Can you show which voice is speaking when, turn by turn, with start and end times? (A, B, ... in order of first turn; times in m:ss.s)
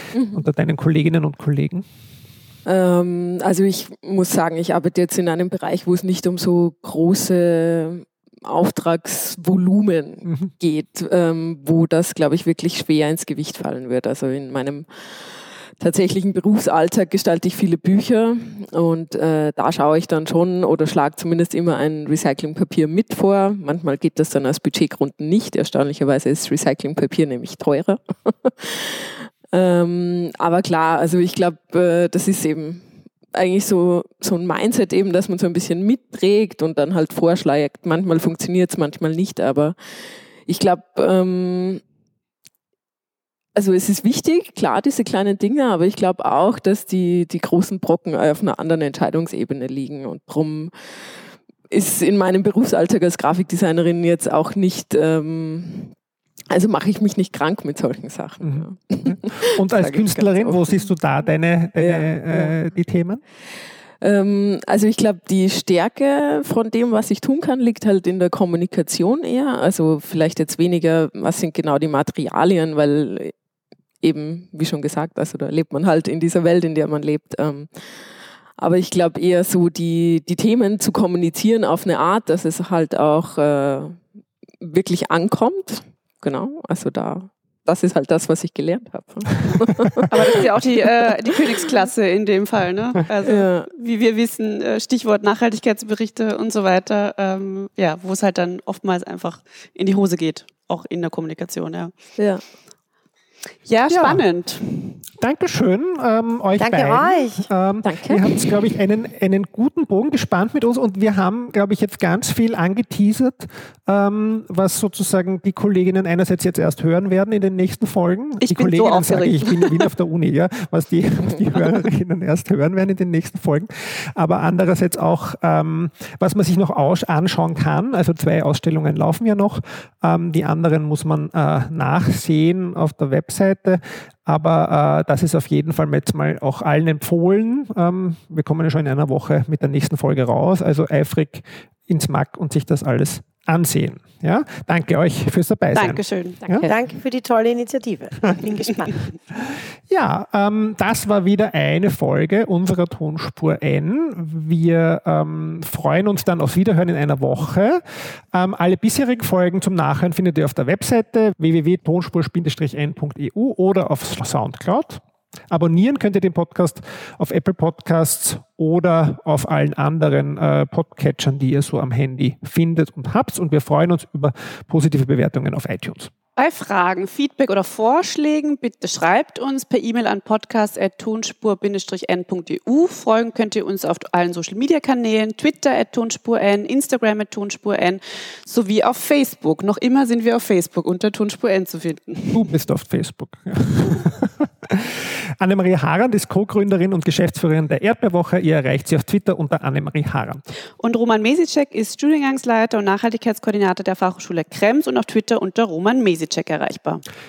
0:00.1-0:00.4 A
0:00.3-0:01.8 B
0:02.6-0:41.8 A
0:10.2-0:10.5 B
0:43.5-0:55.9 A
0:56.5-1:00.9 A
0:58.4-1:03.2 B
1:01.8-1:02.6 A
1:04.0-1:13.3 A
1:14.0-1:24.0 A
1:24.6-1:30.4 A
1:30.1-1:41.9 C
1:33.2-1:33.7 A
1:43.6-1:45.0 C
1:43.9-1:44.2 B
1:45.2-2:26.7 B
1:46.6-1:47.4 D
1:47.8-1:48.5 A
1:58.4-1:59.9 C
2:25.7-2:26.4 C
2:26.6-2:28.9 D
2:29.4-2:37.8 B
2:38.3-2:56.1 B
2:56.4-3:12.5 C
3:12.3-3:20.4 B
3:20.8-3:27.0 C